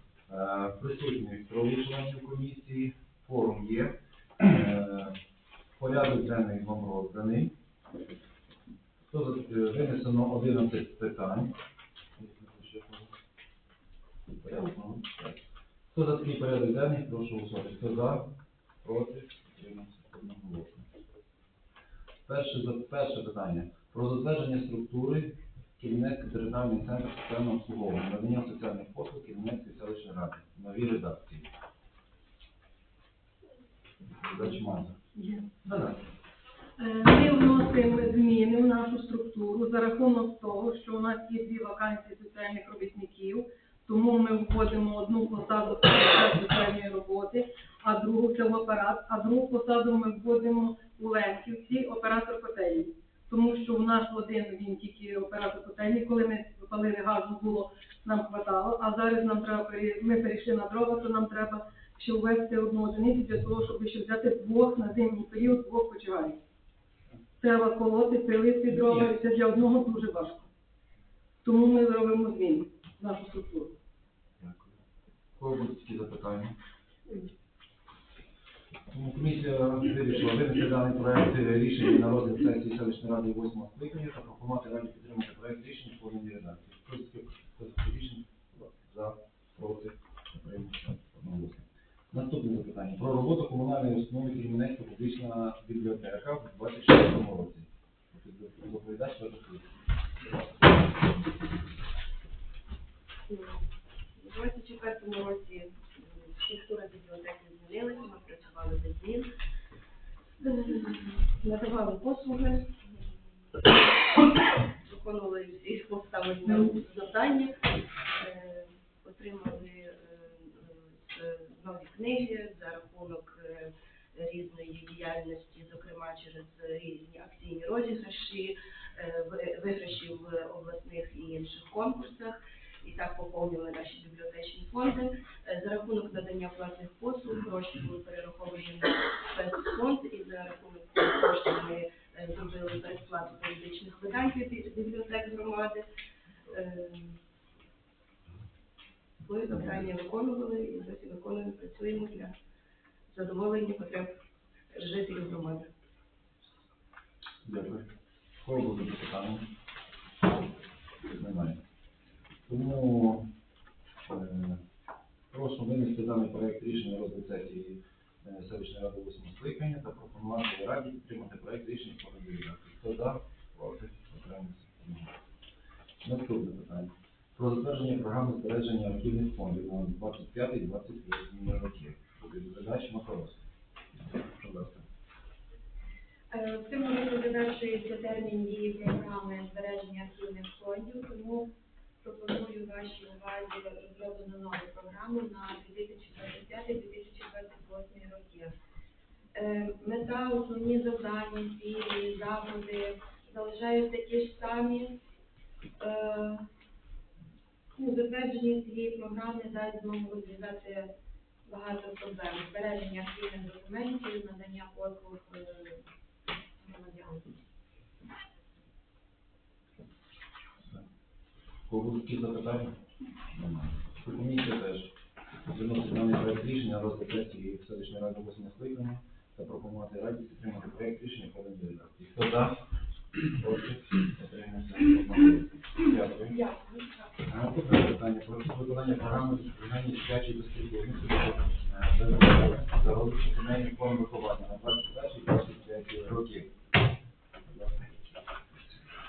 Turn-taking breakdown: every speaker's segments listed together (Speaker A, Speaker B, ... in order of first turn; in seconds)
Speaker A: 0.3-5.2, 5.8-7.5, 9.1-11.6, 12.2-13.1, 14.3-18.3, 18.8-20.9, 22.3-31.5, 34.2-35.0, 35.6-36.0, 68.7-69.1, 74.4-74.7, 75.3-76.5, 78.9-100.8, 157.4-157.9, 158.4-159.5, 161.1-161.6, 162.5-163.3, 164.1-164.6, 165.3-175.1, 176.0-183.4, 184.1-184.8, 221.7-222.8, 223.3-224.9, 225.5-232.6, 233.3-236.4, 237.2-246.5, 247.5-248.0
Speaker B: 35.1-35.5, 36.8-66.4, 67.4-70.5, 71.4-73.7
Speaker C: 103.3-109.2, 110.4-114.1, 114.8-117.6, 118.1-145.8, 146.5-147.2, 149.2-152.3, 153.1-154.1, 154.7-155.7
Speaker D: 186.3-198.5, 199.3-204.9, 205.8-206.4, 207.7-210.9, 211.4-215.8, 216.6-217.3, 236.3-237.1